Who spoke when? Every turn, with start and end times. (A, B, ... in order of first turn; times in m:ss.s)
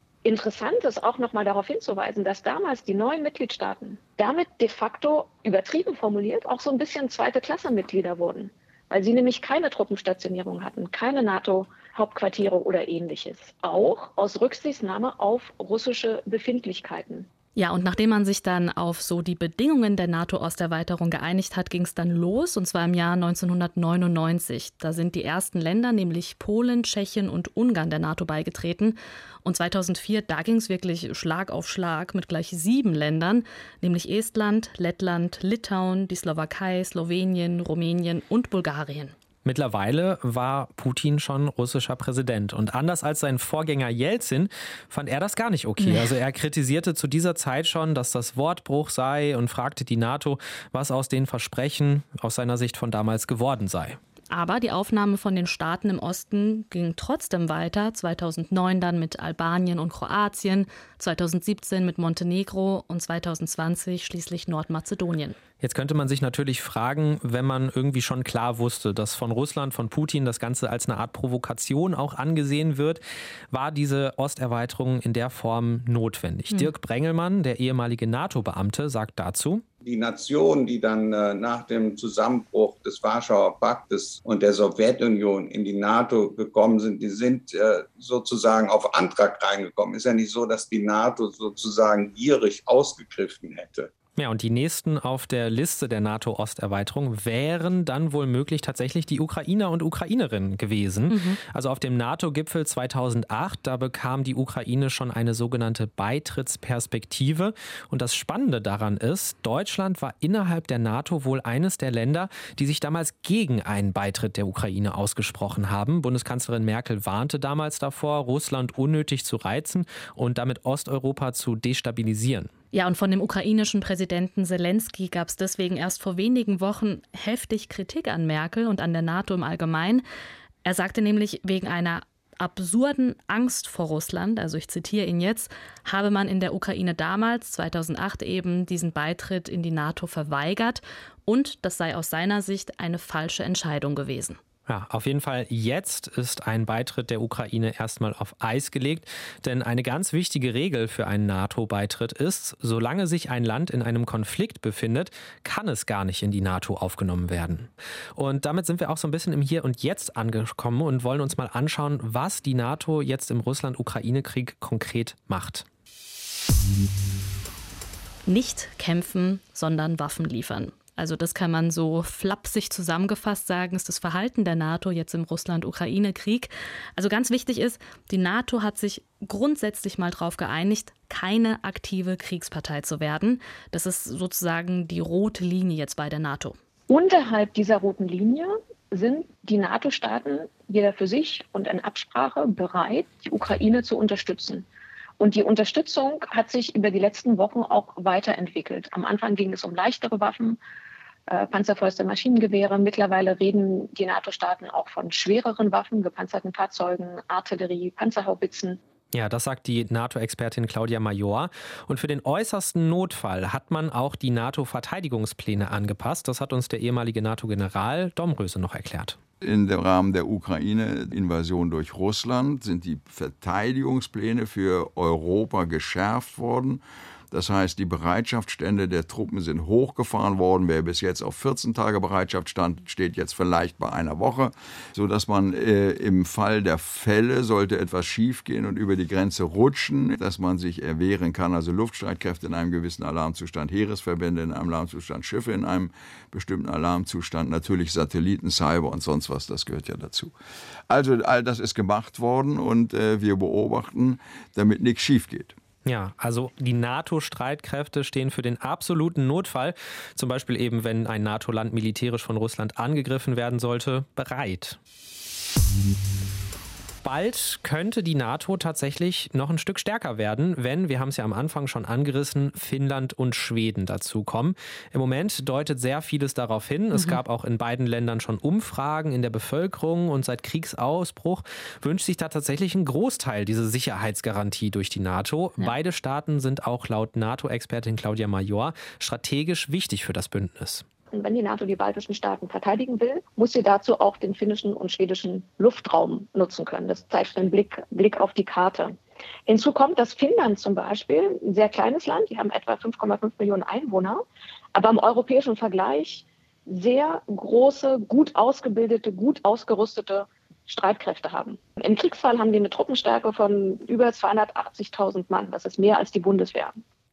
0:00.2-0:17.3 A
0:17.6-0:39.1 B
0:39.4-0:54.0 C
0:45.8-0:46.1 B
0:54.3-1:05.4 B
1:05.6-1:19.6 C
1:19.8-1:33.9 D
1:34.2-2:02.5 C
1:41.1-1:41.4 B
2:02.7-2:10.0 B
2:10.6-2:24.4 B
2:24.7-2:45.7 C
2:48.3-3:06.6 B
3:06.9-3:14.7 A
3:15.2-3:20.6 A
3:21.3-3:28.8 A
3:29.1-3:39.2 C
3:39.4-4:10.3 E
4:10.9-4:15.6 E
4:15.8-4:24.8 C
4:27.0-4:50.8 C
4:36.9-4:37.2 B
4:51.1-4:59.0 A
4:59.5-5:04.2 A
5:04.8-5:16.8 A